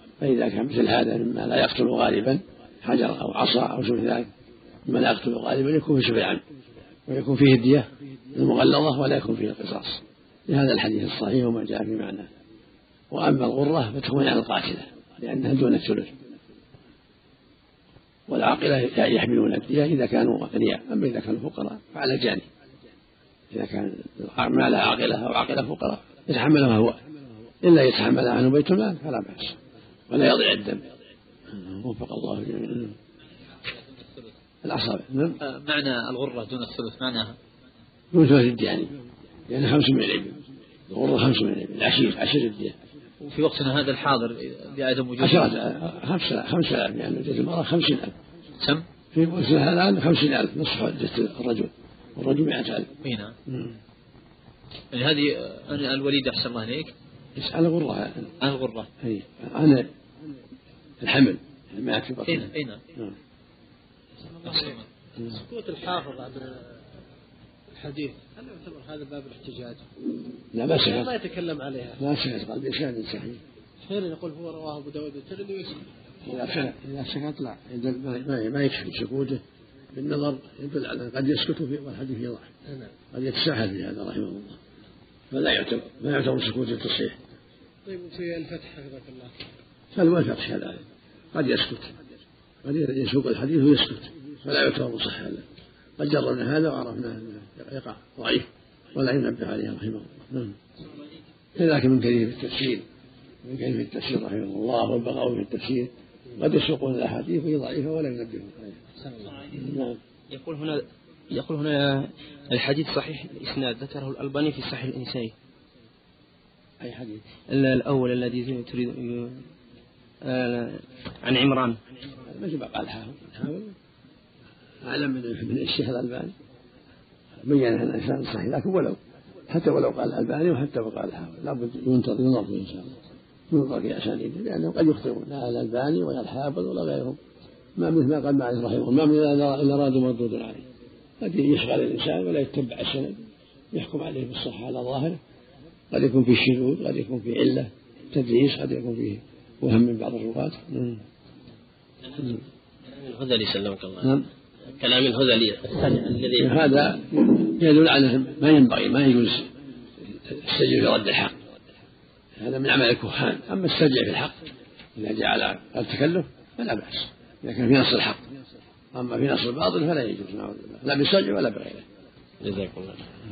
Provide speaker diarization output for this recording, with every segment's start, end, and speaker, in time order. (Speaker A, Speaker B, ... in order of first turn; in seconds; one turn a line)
Speaker A: 0.2-4.3
Speaker A: 4.8-6.4
Speaker A: 7.1-12.3
Speaker A: 13.1-16.1
Speaker A: 18.3-22.4
Speaker A: 23.5-27.0
Speaker A: 27.6-29.6
Speaker A: 30.1-30.8
Speaker A: 31.5-32.9
Speaker A: 34.6-35.4
Speaker B: 35.4-37.4
Speaker A: 38.1-38.9
Speaker A: 39.5-42.7
Speaker B: 43.2-45.5
Speaker A: 45.2-48.1
Speaker B: 48.6-48.9
Speaker A: 49.1-52.9
Speaker B: 53.0-53.4
Speaker A: 53.5-53.7
Speaker B: 54.9-56.9
Speaker A: 57.4-58.3
Speaker B: 58.4-58.9
Speaker A: 59.0-59.9
Speaker A: 61.0-63.1
Speaker B: 62.3-62.8
Speaker C: 64.3-66.8
Speaker B: 64.4-64.8
Speaker C: 67.7-69.9
Speaker A: 70.5-71.1
Speaker C: 70.7-72.0
Speaker A: 72.0-73.4
Speaker C: 73.8-75.8
Speaker A: 76.2-79.4
Speaker A: 79.9-82.5
Speaker C: 82.7-82.9
Speaker A: 83.1-84.6
Speaker A: 85.3-87.2
Speaker C: 87.8-89.3
Speaker A: 89.9-90.8
Speaker A: 91.3-91.9
Speaker A: 92.6-95.4
Speaker A: 96.0-100.5
Speaker A: 101.5-102.8
Speaker A: 103.4-108.8
Speaker C: 109.0-109.4
Speaker A: 109.5-110.0
Speaker D: 110.3-115.3
Speaker A: 116.8-117.2
Speaker D: 117.5-119.4
Speaker D: 120.2-121.8
Speaker A: 122.3-123.7
Speaker A: 124.8-126.3
Speaker A: 127.4-129.0
Speaker A: 129.5-132.9
Speaker A: 133.5-137.2
Speaker A: 137.8-140.6
Speaker A: 141.2-145.2
Speaker A: 145.9-151.0
Speaker A: 154.0-154.2
Speaker A: 156.3-159.5
Speaker A: 160.3-161.3
Speaker A: 162.4-164.3
Speaker A: 165.0-168.2
Speaker A: 168.9-171.8